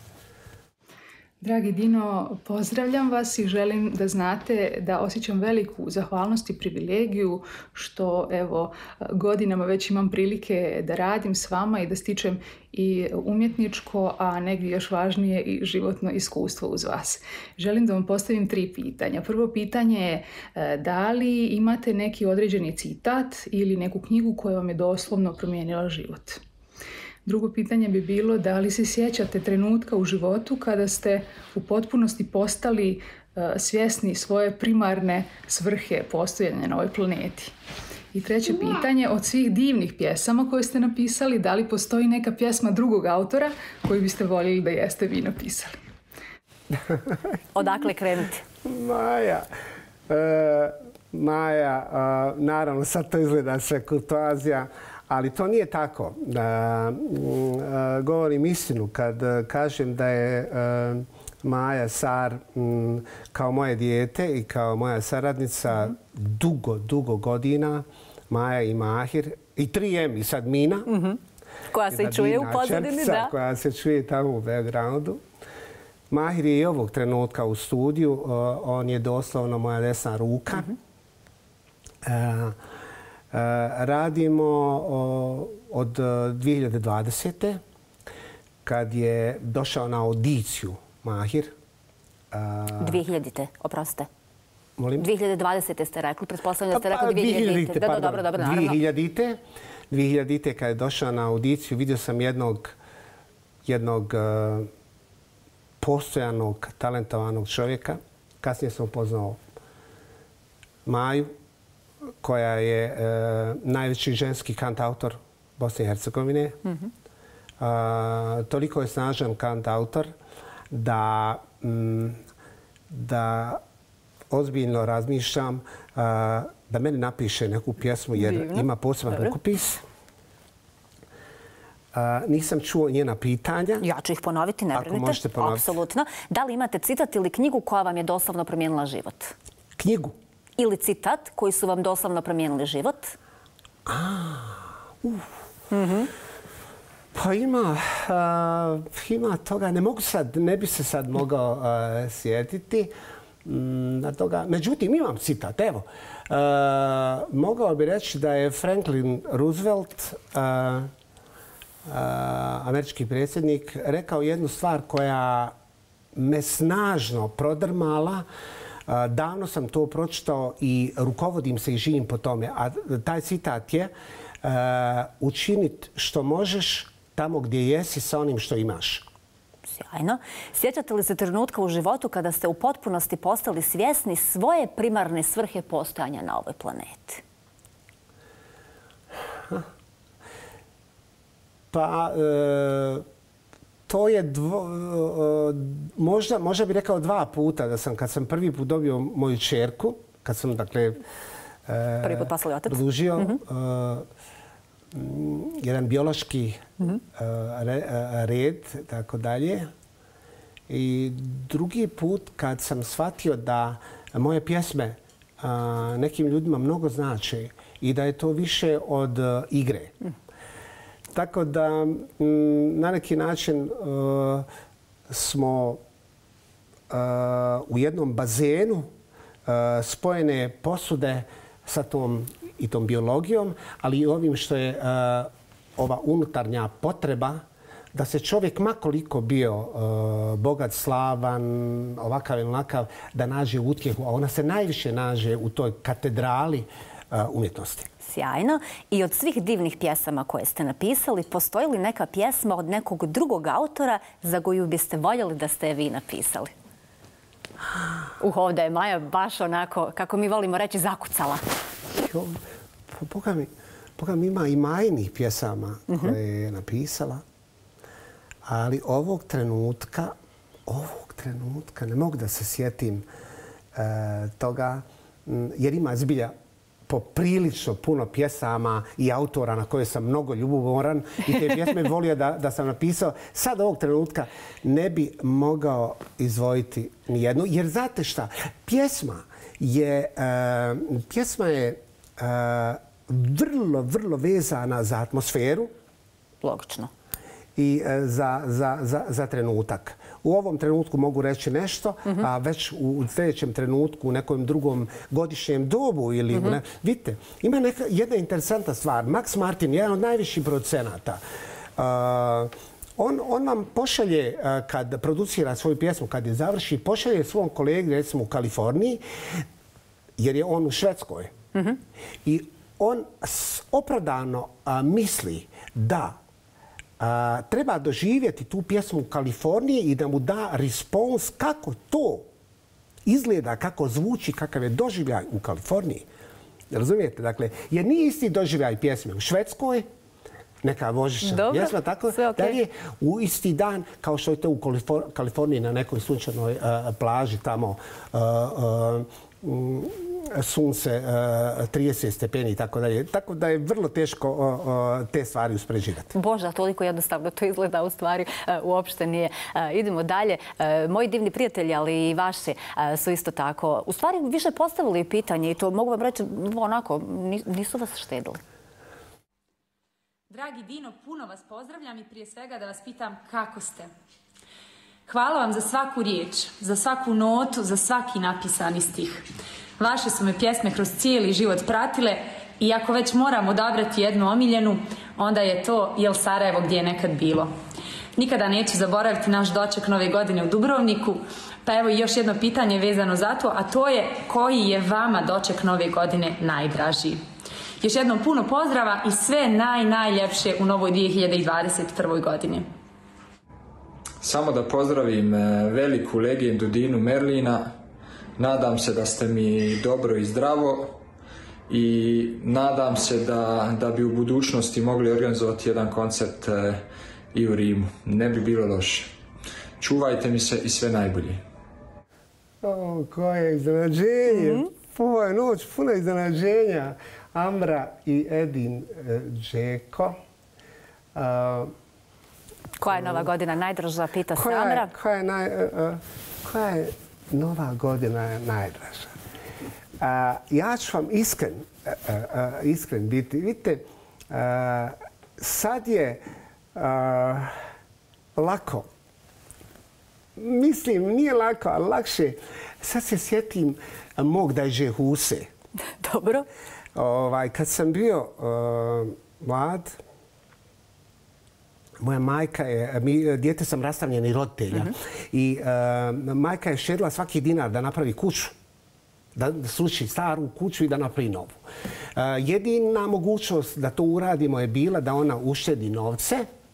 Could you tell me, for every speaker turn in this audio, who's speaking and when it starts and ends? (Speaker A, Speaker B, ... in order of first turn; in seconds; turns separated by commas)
Speaker A: 1.4-26.4, Speaker A: 27.3-37.5, Speaker A: 38.1-45.8, Speaker B: 47.5-48.4, Speaker C: 48.6-49.5, Speaker C: 50.1-70.9, Speaker B: 70.9-71.2, Speaker B: 71.7-73.3, Speaker C: 71.9-75.2, Speaker C: 76.1-80.7, Speaker C: 82.0-82.6, Speaker C: 83.3-87.6, Speaker C: 88.6-91.5, Speaker C: 92.3-93.0, Speaker B: 92.8-94.1, Speaker C: 94.8-95.1, Speaker B: 95.0-98.8, Speaker C: 96.7-99.4, Speaker C: 99.9-102.8, Speaker C: 103.7-104.7, Speaker C: 105.8-109.4, Speaker C: 110.8-111.3, Speaker C: 112.2-116.6, Speaker C: 117.6-120.1, Speaker C: 120.7-122.2, Speaker C: 122.9-123.6, Speaker C: 124.3-129.8, Speaker B: 128.2-129.3, Speaker C: 131.9-133.8, Speaker B: 133.8-139.3, Speaker C: 134.7-135.8, Speaker C: 139.8-140.2, Speaker B: 140.6-143.2, Speaker C: 143.9-145.3, Speaker B: 145.7-146.1, Speaker C: 147.1-152.9, Speaker C: 153.4-160.9, Speaker C: 161.9-165.5, Speaker C: 166.2-168.3, Speaker C: 168.9-173.9, Speaker C: 174.4-179.1, Speaker B: 179.7-187.2, Speaker C: 191.7-193.1, Speaker C: 193.9-201.0, Speaker C: 201.7-204.1, Speaker B: 202.0-203.4, Speaker C: 204.9-209.7, Speaker C: 210.7-219.9, Speaker C: 221.1-224.5, Speaker C: 225.1-225.8, Speaker C: 226.9-228.9, Speaker C: 229.5-247.9, Speaker B: 248.0-256.5, Speaker B: 258.2-261.4, Speaker C: 261.9-267.2, Speaker B: 265.9-266.2, Speaker C: 268.5-270.1, Speaker C: 270.7-273.1, Speaker C: 273.7-276.3, Speaker C: 276.9-295.7, Speaker B: 296.4-296.9, Speaker C: 297.6-311.2, Speaker B: 306.3-306.6, Speaker C: 311.8-319.4, Speaker C: 320.2-321.3, Speaker C: 322.2-326.2, Speaker C: 327.0-332.3, Speaker C: 333.1-336.1, Speaker C: 336.7-339.9, Speaker C: 340.6-356.1, Speaker B: 341.2-342.6, Speaker B: 356.1-368.4, Speaker D: 370.3-373.9, Speaker D: 375.1-379.3, Speaker D: 379.8-387.5, Speaker D: 388.2-397.2, Speaker D: 397.8-402.7, Speaker E: 404.2-407.7, Speaker E: 408.4-411.0, Speaker E: 411.7-419.1, Speaker E: 419.8-421.4, Speaker C: 422.6-430.2, Speaker B: 424.3-424.7, Speaker C: 431.1-431.7, Speaker B: 432.8-434.9, Speaker C: 432.9-433.3, Speaker C: 434.3-439.2, Speaker C: 440.0-446.2, Speaker C: 446.7-447.6, Speaker C: 448.4-448.9, Speaker C: 450.4-455.5, Speaker B: 456.0-456.5, Speaker C: 456.9-460.0, Speaker C: 462.0-468.6, Speaker C: 469.4-471.6, Speaker C: 472.2-476.5